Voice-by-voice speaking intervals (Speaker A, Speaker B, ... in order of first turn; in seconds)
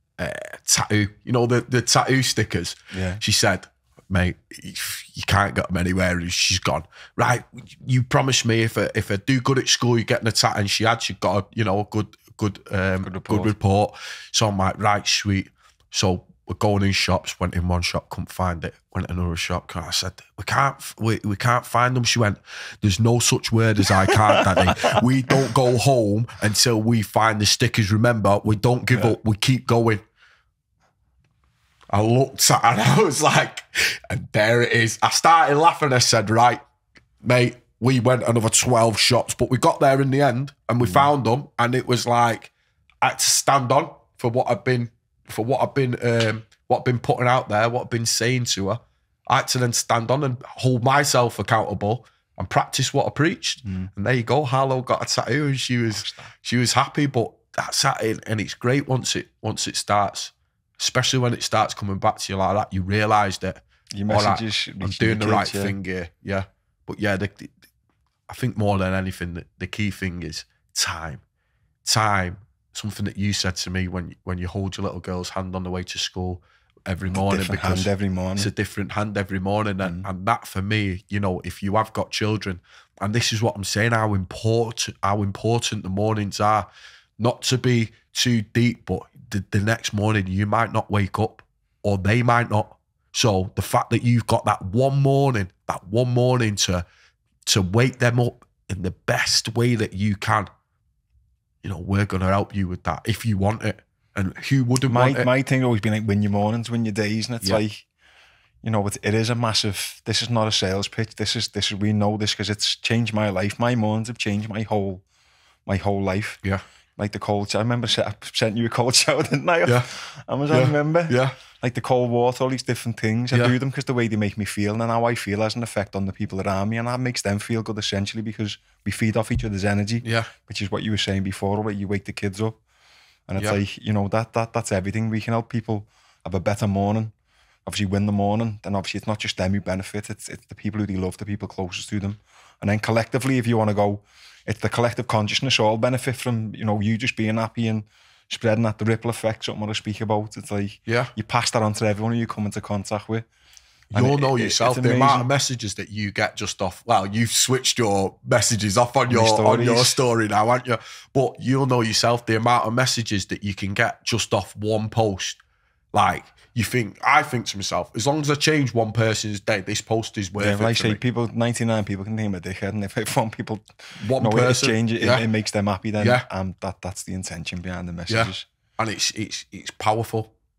Speaker A: 0.2-30.0, 31.9-36.6, 37.2-42.5, 43.0-67.5, 68.3-71.2, 71.8-86.7, 87.2-96.8, 97.4-100.5, 101.6-105.3, 120.5-121.3, 130.0-130.3, 150.9-151.1, 153.9-165.4, 165.9-171.0, 174.0-175.2, 176.0-176.2, 178.1-180.3
Speaker B: 2.9-3.2, 13.0-13.5, 24.1-25.0, 53.6-53.9, 55.9-56.3, 63.9-65.8, 77.1-78.5, 104.9-107.8, 108.6-115.0, 115.7-116.4, 117.0-132.6, 133.3-137.1, 137.7-153.2, 153.9-155.3, 159.1-160.0, 170.4-178.4